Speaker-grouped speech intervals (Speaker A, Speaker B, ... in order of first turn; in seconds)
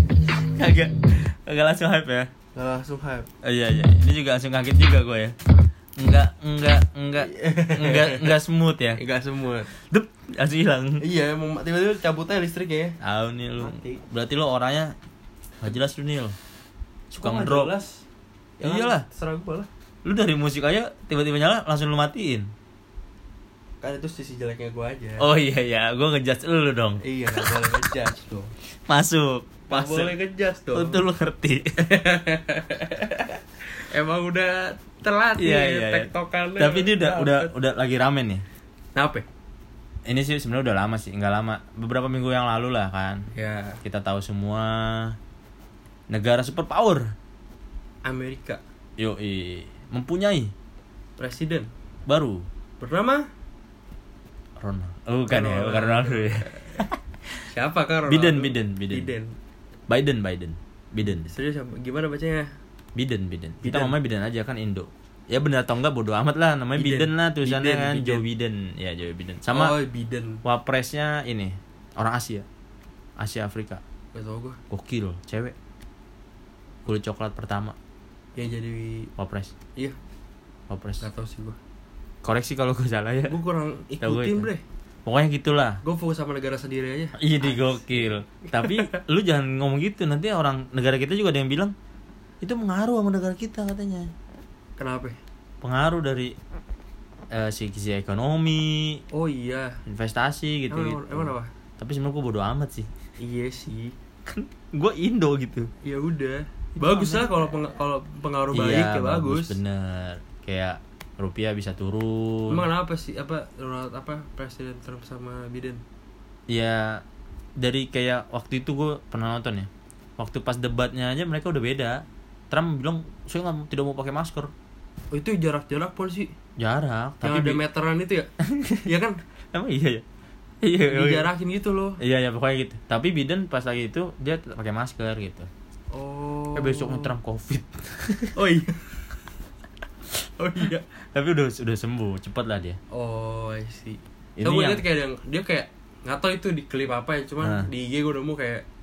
Speaker A: 0.3-2.3, 3.4-5.3, 6.0-9.0, 9.7-11.1, 13.0-14.9, 15.6-16.4, 17.1-17.7, 18.6-19.1, 20.1-22.5, 25.2-27.8, 28.9-30.1, 30.7-31.7, 35.4-38.5, 40.1-43.3, 43.8-45.2, 46.1-47.1, 49.0-50.5, 52.1-52.5, 54.6-57.0, 58.1-59.1, 59.9-61.3, 63.0-69.8, 70.5-72.5, 73.2-73.8, 74.7-75.5, 76.9-77.8, 79.2-79.5, 80.7-81.1, 82.2-83.4, 84.0-84.5, 85.0-85.8, 87.2-91.7, 92.4-94.1, 95.6-96.3, 97.3-99.0, 99.9-102.9, 104.3-105.7, 106.8-107.5, 108.5-112.7, 116.5-117.0, 117.6-124.5, 126.6-127.6, 128.4-128.9, 129.5-130.1, 130.6-131.3, 132.0-135.5, 136.6-138.4, 141.0-142.8, 144.4-144.8, 147.4-147.7
Speaker B: 2.5-3.3, 7.2-8.3, 9.0-9.7, 11.0-13.0, 13.6-14.0, 17.2-18.0, 18.6-19.7, 23.8-25.3, 27.0-28.5, 29.7-31.0, 31.8-33.4, 33.9-37.5, 39.0-39.3, 43.3-43.8, 48.0-48.6, 51.2-51.7, 52.8-53.2, 55.3-56.9, 57.5-59.4, 61.1-62.5, 63.6-64.0, 66.8-68.2, 69.5-70.4, 74.1-74.6, 78.4-79.1, 81.0-81.6, 83.3-84.6, 85.8-89.0, 94.8-95.2, 99.1-99.8, 100.7-101.5, 103.2-103.9, 105.8-109.6, 112.5-115.8, 125.1-126.3, 127.2-128.3, 128.8-129.2, 130.9-132.0, 135.9-137.1, 138.3-139.0, 140.4-140.8, 142.9-148.6